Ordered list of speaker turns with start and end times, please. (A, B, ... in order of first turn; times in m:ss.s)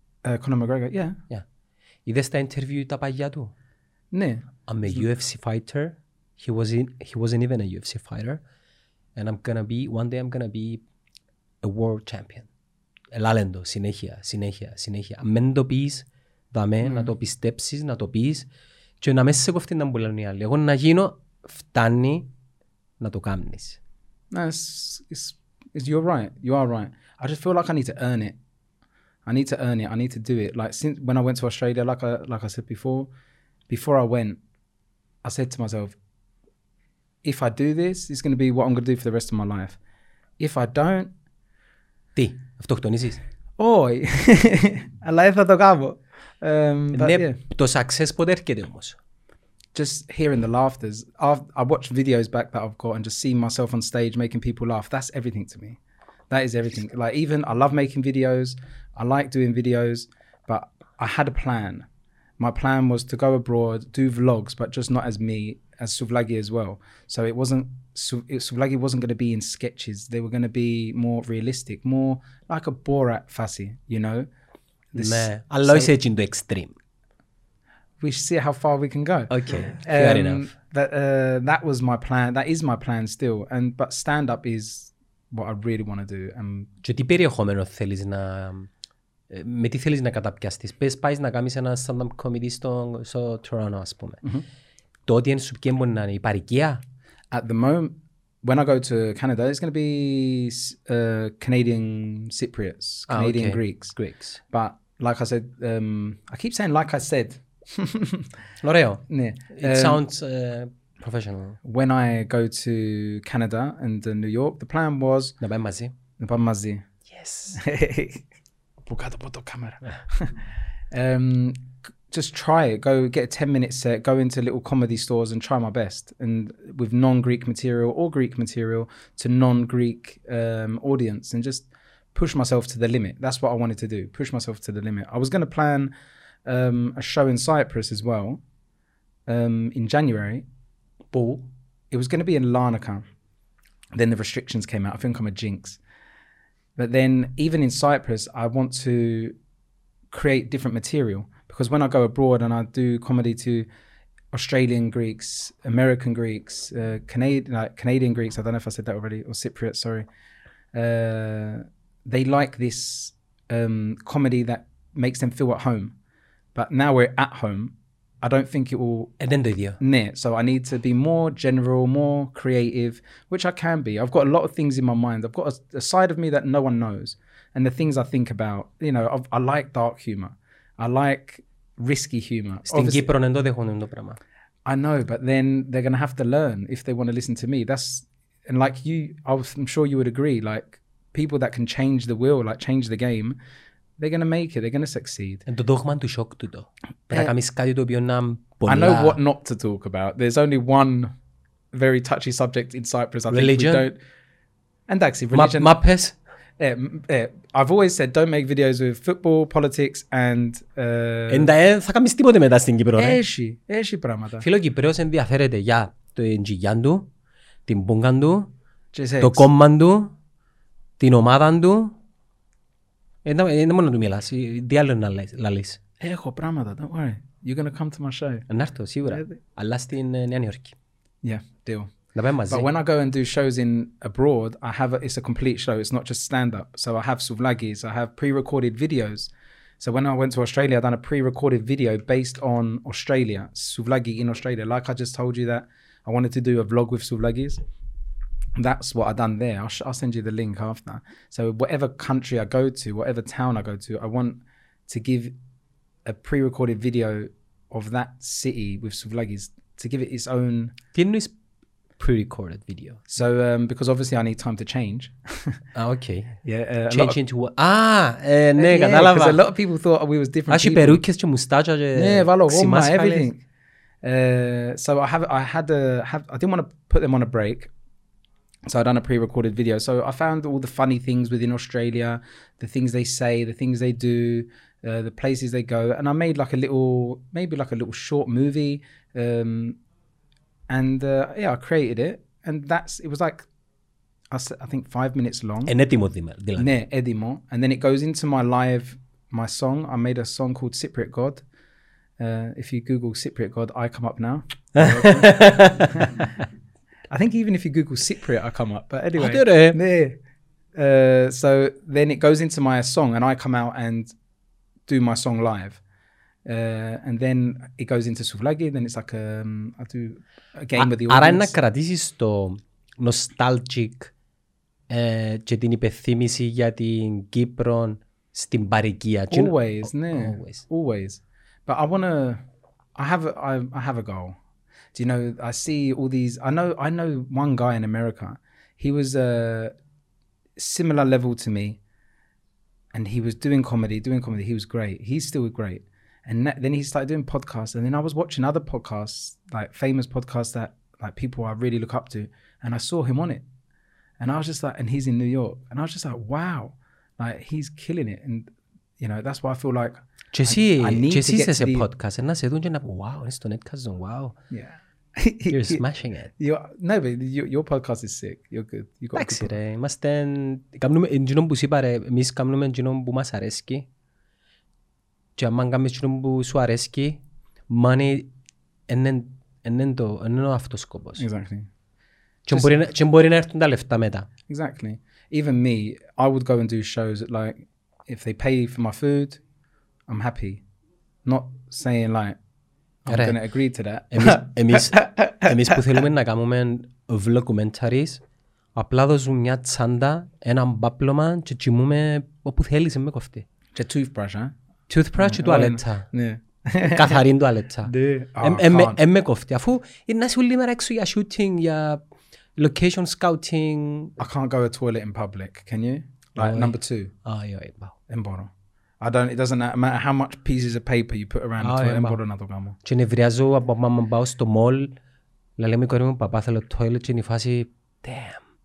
0:00.2-0:01.2 A
0:02.0-0:03.5 B
0:04.1-0:05.0 A
0:04.7-0:08.4 B
0:09.2-0:10.8 B
0:11.6-0:12.5 B
0:13.1-0:18.5 B
0:16.8-0:17.1 A
0:19.0-0:22.3 B
0:23.0-0:23.8 B
0:24.3-0:28.4 A
0:29.2-0:33.1 A
0:33.7-0:34.4 A
0:35.2-0:36.0 A
0:37.2-0:39.8 A
0:40.4-0:41.1 A
0:42.2-0:43.2 B
0:43.6-0:47.4 A
0:46.9-0:49.0 B
0:49.7-0:55.8 A
0:56.3-1:01.8 A
1:02.4-1:14.3 A
1:14.9-1:15.9 A
1:15.0-1:16.7 B
1:18.0-1:26.7 A
1:19.3-1:20.5 B
1:26.8-1:28.7 B
1:29.3-1:34.2 B
1:35.1-1:36.8 B
1:37.3-1:43.9 A
1:43.1-1:44.4 B
1:44.5-1:48.3 A
1:48.6-1:51.6 B
1:49.1-1:50.0 A
1:51.6-1:55.3 A
1:55.4-1:55.9 B
1:56.2-1:56.8 A
1:57.1-1:57.6 B
1:57.5-1:58.2 A
1:58.9-2:00.4 A
2:00.9-2:15.9 A
2:16.4-2:18.4 A
2:19.3-2:20.4 A
2:21.1-2:21.4 B
2:21.9-2:23.0 A
2:23.9-2:25.8 A
2:26.8-2:29.3 A
2:30.1-2:33.7 A
2:34.3-2:40.0 A
2:40.7-2:45.9 A
2:46.5-2:49.1 A
2:49.2-2:49.8 B
2:49.8-3:03.1 A
3:02.7-3:04.2 B
3:04.6-3:13.4 A
3:14.0-3:15.4 A
3:15.5-3:19.2 B
3:18.6-3:21.1 A
3:21.7-3:24.0 A
3:23.3-3:23.9 B
3:24.9-3:25.7 A
3:25.3-3:26.2 B
3:26.6-3:31.5 A
3:31.3-3:33.2 B
3:33.0-3:34.5 A
3:34.4-3:37.1 B
3:37.7-3:38.5 B
3:38.9-3:39.5 A
3:39.2-3:40.1 B
3:41.0-3:41.9 B
3:43.2-3:45.8 B
3:46.0-3:48.4 A
3:48.5-3:50.7 B
3:49.1-3:49.4 A
3:51.2-3:51.9 A
3:52.1-3:52.7 B
3:52.5-4:07.6 A
4:08.6-4:15.3 A
4:16.0-4:20.7 A
4:20.9-4:21.3 B
4:22.0-4:23.0 B
4:23.1-4:25.6 A
4:25.7-4:26.4 B
4:26.4-4:27.2 A
4:26.9-4:29.4 B
4:28.6-4:31.0 A
4:30.5-4:33.3 B
4:31.9-4:33.4 A
4:34.0-4:37.7 A
4:38.7-4:49.8 A
4:50.7-4:53.4 A
4:54.3-4:55.7 A
4:55.6-4:56.7 B
4:56.6-5:01.4 A
5:02.2-5:06.4 A
5:04.7-5:06.2 B
5:07.1-5:10.2 A
5:09.2-5:09.8 B
5:10.8-5:14.1 A
5:14.9-5:15.8 A
5:16.4-5:21.5 A
5:20.8-5:24.1 B
5:24.9-5:30.6 B
5:29.3-5:32.4 A
5:33.0-5:34.4 A
5:34.9-5:39.7 A
5:40.6-5:41.8 A
5:42.9-5:53.4 A
5:54.2-6:01.9 A
6:00.3-6:04.4 B
6:04.5-6:05.8 A
6:05.5-6:06.3 B
6:06.4-6:09.5 A
6:09.1-6:13.9 B
6:15.4-6:18.3 B
6:18.9-6:21.2 B
6:21.2-6:21.7 A
6:22.4-6:24.3 B
6:22.5-6:22.8 A
6:24.5-6:29.4 A
6:30.1-6:30.6 A
6:31.2-6:32.4 A
6:33.0-6:35.8 A
6:33.1-6:33.4 B
6:34.1-6:38.2 B
6:38.7-6:43.4 B
6:43.7-6:44.5 A
6:44.9-6:46.0 B
6:45.2-6:47.2 A
6:46.8-6:52.0 B
6:47.8-6:49.0 A
6:52.6-6:54.2 B
6:54.2-6:57.1 A
6:56.4-6:57.9 B
6:58.1-7:02.8 A
7:01.6-7:02.2 B
7:02.8-7:04.9 B
7:05.6-7:08.4 B